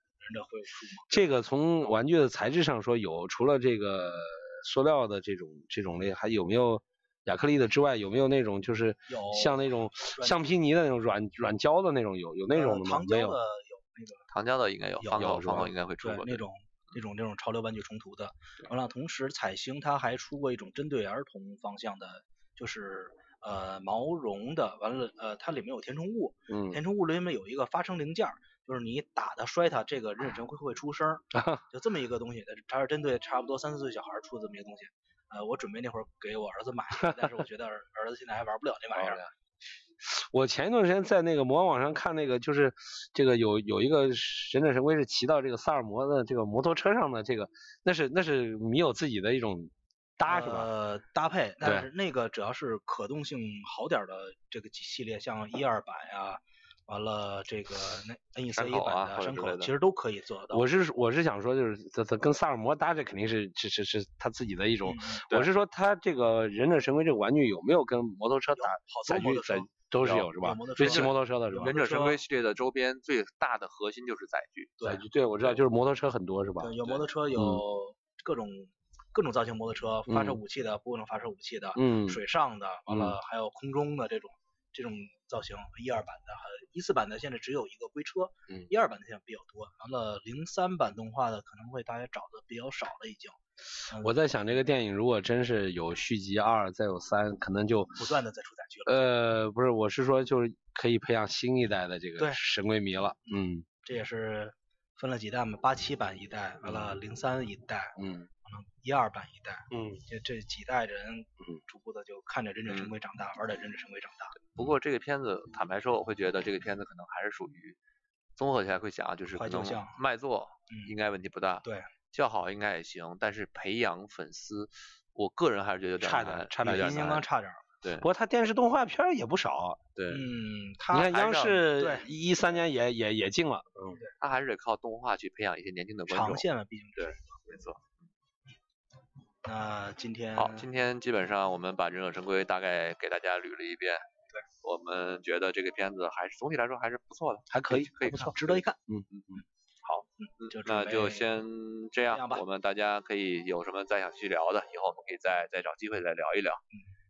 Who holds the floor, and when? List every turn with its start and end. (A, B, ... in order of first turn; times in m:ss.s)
0:00.2-0:01.1 A
0:01.1-0:13.4 B
0:09.1-0:10.5 A
0:12.5-0:14.2 A
0:14.3-0:16.4 C
0:15.0-0:39.3 A
0:15.2-0:15.7 B
0:26.5-0:26.8 B
0:31.3-0:31.6 B
0:39.0-0:39.2 B
0:40.0-0:50.7 B
0:50.2-1:00.6 A
0:51.6-0:51.9 B
0:58.5-0:59.7 C
1:00.5-1:11.7 B
1:04.8-1:05.2 A
1:08.6-1:09.7 A
1:10.0-1:14.8 C
1:10.4-1:12.2 A
1:14.8-1:16.7 B
1:16.6-1:33.4 A
1:17.4-1:17.6 B
1:20.1-1:20.4 B
1:21.8-1:22.2 B
1:22.9-1:23.2 B
1:33.9-1:34.1 A
1:34.0-1:38.0 B
1:38.0-1:39.0 A
1:38.9-1:43.6 B
1:43.8-1:54.4 A
1:46.6-1:46.9 B
1:48.0-1:48.3 B
1:49.7-1:50.0 B
1:54.5-1:57.8 C
1:58.4-2:07.2 C
1:59.4-2:00.0 A
2:01.6-2:01.9 A
2:06.0-2:07.1 B
2:06.6-2:07.6 A
2:07.8-2:08.1 C
2:08.0-2:09.8 B
2:10.0-2:10.2 C
2:10.1-2:12.1 A
2:10.9-2:14.0 B
2:11.0-2:11.6 C
2:14.2-2:16.4 C
2:16.1-2:17.4 A
2:17.0-2:17.8 C
2:19.4-2:20.7 A
2:20.4-2:24.0 C
2:24.6-2:29.3 C
2:27.5-2:28.3 B
2:28.0-2:28.8 A
2:30.2-2:31.3 A
2:30.4-2:36.6 C
2:32.1-2:32.4 A